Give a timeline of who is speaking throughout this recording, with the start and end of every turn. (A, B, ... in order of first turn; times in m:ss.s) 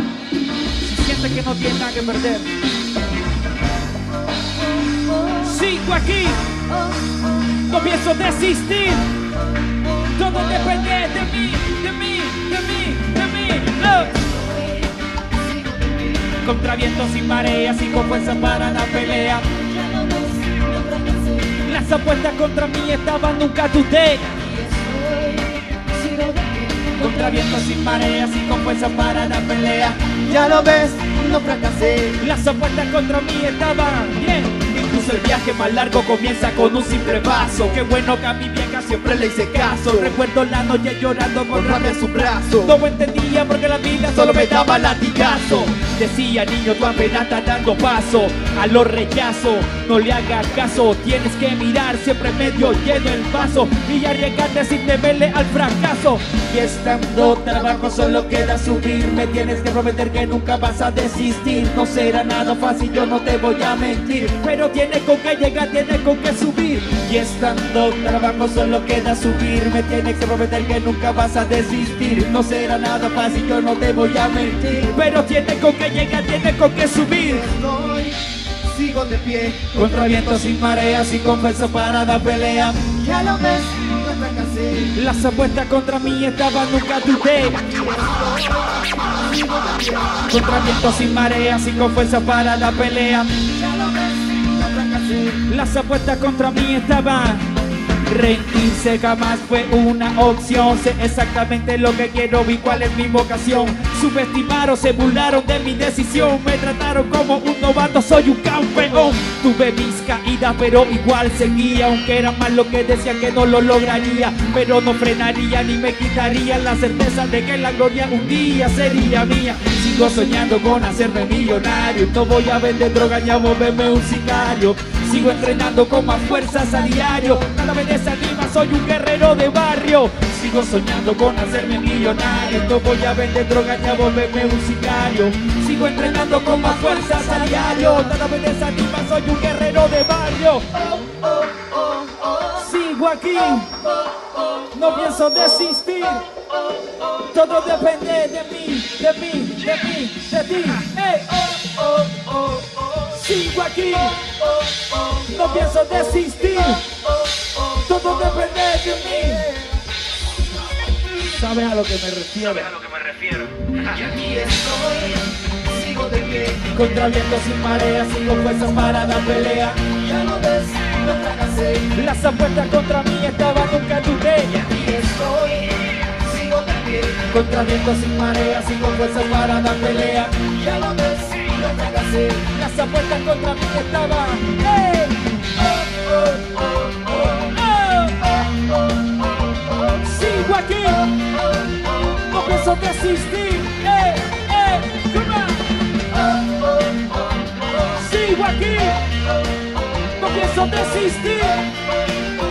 0:00.8-0:02.5 A
0:05.3-0:06.6 A
0:07.6-0:09.1 A
0:10.0-0:14.2 A
0:13.8-0:16.3 B
0:16.3-0:19.6 A
0:19.5-0:21.6 B
0:21.6-0:24.5 A
0:24.6-0:27.0 B
0:26.9-0:30.2 A
0:30.0-0:32.2 B
0:32.2-1:17.5 A
0:37.0-0:37.7 B
0:39.0-0:40.2 B
0:41.5-0:42.7 B
0:44.1-0:45.6 B
1:17.2-1:20.2 B
1:19.7-1:22.9 A
1:22.8-1:24.9 B
1:24.9-1:27.7 A
1:27.7-1:30.2 B
1:30.3-1:33.5 A
1:33.4-1:35.4 B
1:35.4-1:37.5 A
1:38.0-2:20.7 A
2:22.5-2:23.8 A
2:24.7-2:26.3 A
2:27.1-2:32.0 A
2:32.9-2:34.3 A
2:35.2-2:36.9 A
2:37.7-2:39.7 A
2:41.2-2:43.5 A
2:43.9-2:46.7 B
2:46.7-2:49.9 A
2:49.8-2:51.9 B
2:51.9-2:54.8 A
2:54.7-2:57.3 B
2:57.3-3:00.4 A
3:00.4-3:02.5 B
3:02.5-3:05.3 A
3:07.2-3:08.4 A
3:10.0-3:11.2 A
3:12.2-3:15.7 A
3:17.8-3:19.1 A
3:20.2-3:21.7 A